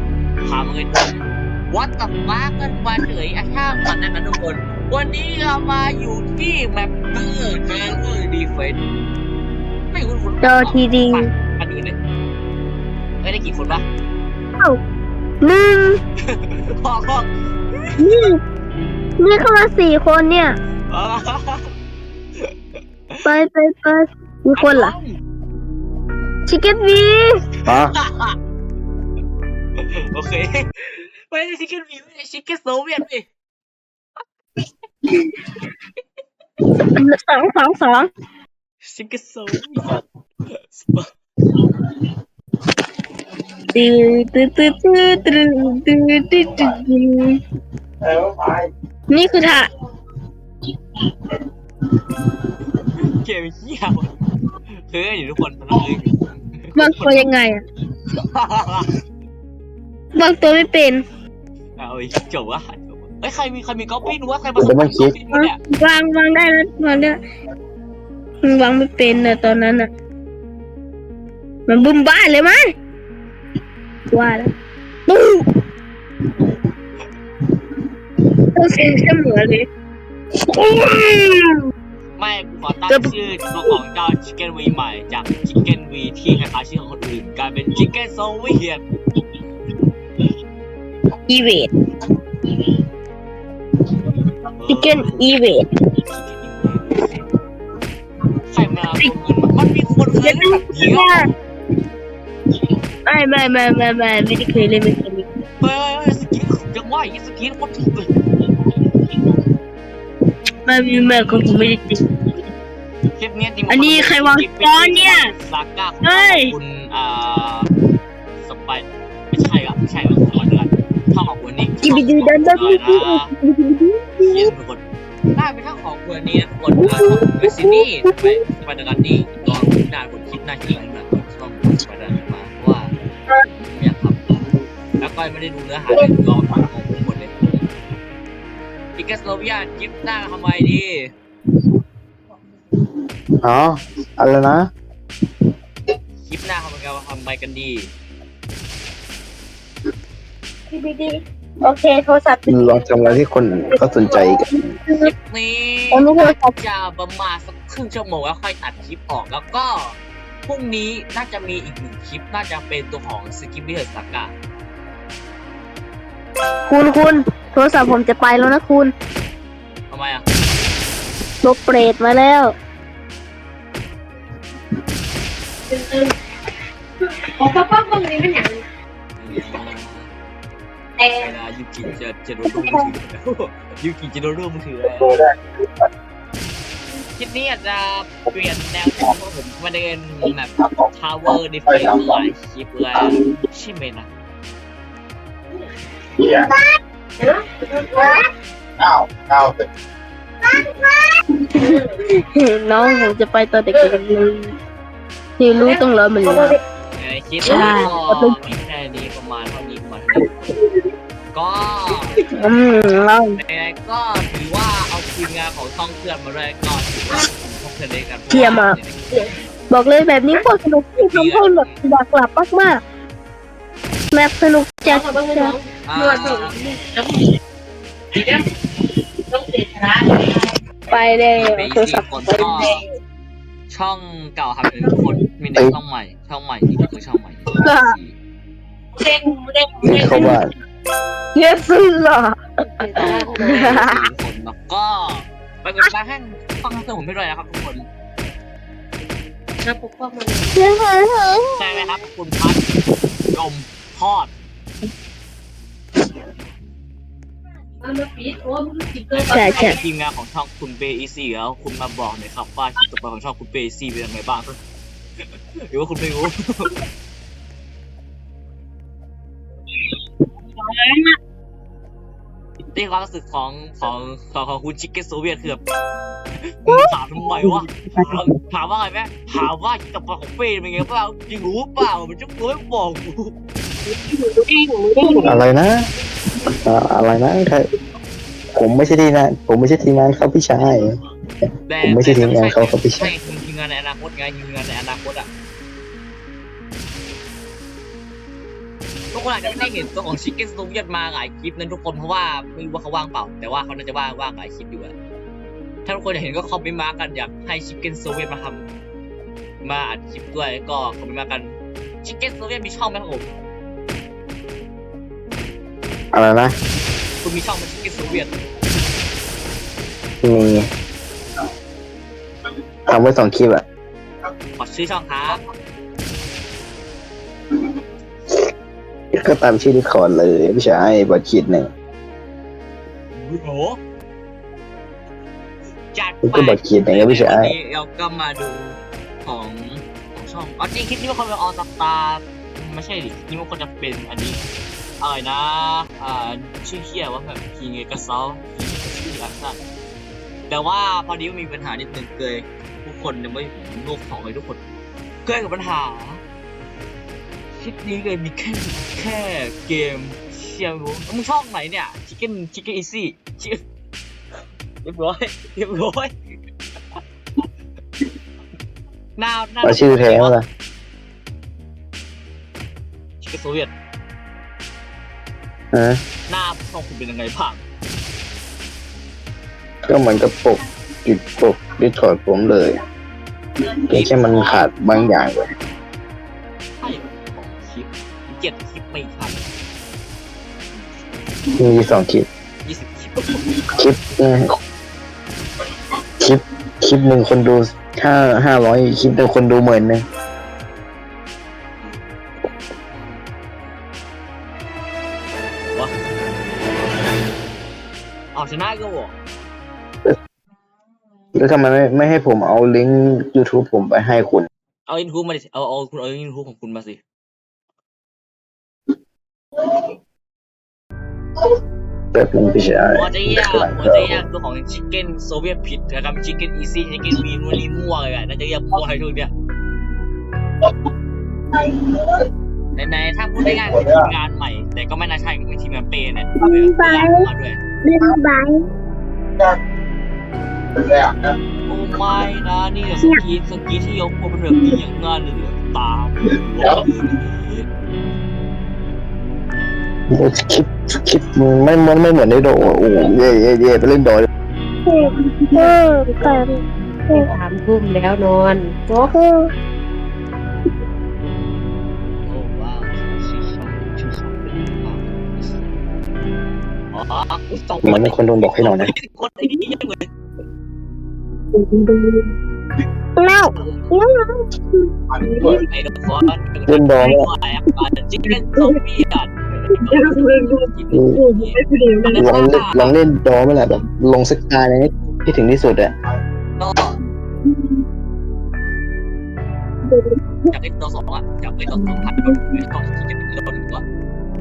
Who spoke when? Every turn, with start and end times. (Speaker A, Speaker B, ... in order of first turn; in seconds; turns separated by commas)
Speaker A: 0.4-1.2, Speaker A: 1.7-8.8, Speaker A: 9.9-12.0, Speaker B: 10.4-11.2, Speaker A: 13.2-13.8, Speaker B: 15.4-16.0, Speaker A: 16.2-18.2, Speaker B: 18.0-18.4, Speaker B: 19.2-20.5, Speaker A: 20.9-21.7, Speaker B: 23.2-24.9, Speaker A: 24.6-25.2, Speaker B: 26.5-27.4, Speaker C: 27.6-27.9, Speaker A: 27.7-28.3, Speaker A: 29.8-33.3, Speaker B: 36.8-38.1, Speaker A: 38.8-41.1, Speaker B: 43.7-47.4, Speaker C: 48.1-48.6, Speaker B: 49.1-49.7, Speaker A: 53.0-54.1, Speaker A: 54.7-57.3, Speaker B: 56.8-57.6, Speaker A: 58.1-58.9, Speaker B: 60.1-61.0, Speaker A: 61.8-65.6, Speaker C: 64.6-65.1, Speaker B: 65.3-67.2, Speaker B: 68.4-69.9, Speaker B: 71.7-72.6, Speaker B: 74.1-74.5, Speaker B: 75.1-75.5, Speaker B: 78.5-79.7, Speaker B: 80.5-81.6, Speaker A: 82.2-88.8, Speaker B: 91.3-91.7, Speaker A: 94.5-95.5, Speaker B: 94.7-95.7, Speaker A: 96.0-97.2, Speaker A: 98.5-101.3, Speaker B: 100.2-101.3, Speaker B: 103.1-105.3, Speaker A: 105.6-108.1, Speaker B: 110.7-112.0, Speaker A: 113.2-117.7, Speaker B: 113.7-115.3, Speaker B: 116.0-116.5, Speaker A: 118.4-123.3, Speaker B: 121.8-124.5, Speaker A: 124.2-124.8, Speaker A: 125.3-132.9, Speaker B: 126.8-128.3, Speaker A: 133.4-134.2, Speaker A: 135.0-137.3, Speaker A: 139.0-141.1, Speaker C: 143.4-144.7, Speaker A: 146.2-147.9, Speaker B: 150.7-152.9, Speaker C: 152.5-154.7, Speaker B: 153.8-154.3, Speaker A: 154.9-164.3, Speaker B: 155.9-156.6, Speaker B: 166.7-168.9, Speaker A: 169.9-170.2, Speaker B: 171.4-172.5, Speaker D: 175.7-176.1, Speaker D: 177.4-178.6, Speaker A: 179.2-180.1, Speaker A: 181.1-185.2, Speaker C: 185.0-185.3, Speaker A: 187.2-194.1, Speaker C: 191.8-192.1, Speaker B: 201.5-204.6, Speaker B: 205.4-206.6, Speaker A: 206.9-210.4, Speaker B: 207.4-208.3, Speaker A: 211.3-212.2, Speaker B: 212.2-213.4, Speaker A: 213.3-219.0, Speaker B: 218.3-218.8, Speaker B: 219.7-222.8, Speaker A: 220.9-221.8, Speaker B: 224.1-225.6, Speaker D: 224.8-227.0, Speaker A: 225.8-226.6, Speaker D: 229.3-229.9, Speaker B: 230.9-232.7, Speaker A: 231.3-232.8, Speaker A: 233.7-238.1, Speaker B: 237.6-237.9, Speaker D: 239.1-240.3, Speaker C: 239.8-240.5, Speaker B: 239.8-240.3, Speaker B: 241.3-244.0, Speaker D: 242.8-243.6, Speaker A: 243.0-247.9, Speaker D: 249.6-250.5, Speaker B: 250.5-251.6, Speaker A: 251.6-254.3, Speaker D: 257.8-259.8, Speaker A: 259.1-264.6, Speaker B: 259.3-259.8, Speaker A: 265.6-266.7, Speaker B: 270.6-271.1, Speaker A: 272.7-275.6, Speaker A: 276.6-283.3, Speaker D: 283.9-285.4, Speaker B: 285.0-285.3, Speaker C: 285.2-285.8, Speaker C: 286.6-287.6, Speaker C: 288.5-290.9, Speaker A: 291.7-295.3, Speaker C: 291.8-293.1, Speaker A: 299.1-304.9, Speaker A: 305.9-308.6, Speaker A: 309.6-313.3, Speaker C: 316.1-316.5, Speaker A: 317.2-318.3, Speaker C: 320.2-320.7, Speaker C: 322.9-323.6, Speaker A: 324.6-325.4, Speaker C: 329.2-331.7, Speaker A: 333.1-333.8, Speaker A: 335.9-344.4, Speaker C: 336.2-337.5, Speaker A: 345.0-349.6, Speaker A: 350.5-354.6, Speaker A: 355.2-356.2, Speaker A: 357.5-363.6, Speaker A: 364.8-366.1, Speaker A: 369.2-370.4, Speaker C: 369.6-370.4, Speaker A: 373.2-373.7, Speaker C: 375.7-376.0, Speaker A: 376.3-377.6, Speaker C: 379.9-382.8, Speaker C: 383.7-385.5, Speaker A: 383.9-384.7, Speaker A: 386.8-389.4, Speaker C: 391.6-392.3, Speaker A: 392.6-393.5, Speaker C: 393.5-394.5, Speaker C: 396.2-400.0, Speaker A: 402.9-403.2, Speaker A: 408.3-409.1, Speaker C: 411.3-414.5, Speaker A: 414.9-417.0, Speaker C: 422.1-424.2, Speaker A: 422.9-429.3, Speaker C: 431.6-432.1, Speaker A: 432.8-437.6, Speaker B: 436.4-437.3, Speaker B: 437.8-438.6, Speaker C: 440.9-441.1, Speaker A: 441.6-447.7, Speaker C: 450.1-454.3, Speaker B: 454.9-456.5, Speaker D: 454.9-459.1, Speaker B: 459.0-459.5, Speaker A: 462.2-465.7, Speaker A: 466.9-470.1, Speaker C: 467.8-468.9, Speaker B: 473.2-474.5, Speaker A: 473.5-473.9, Speaker A: 475.4-482.9, Speaker C: 476.7-477.3, Speaker D: 479.9-480.5, Speaker C: 480.9-481.2, Speaker D: 481.1-482.2, Speaker C: 482.1-485.9, Speaker A: 486.6-486.9, Speaker A: 490.5-493.8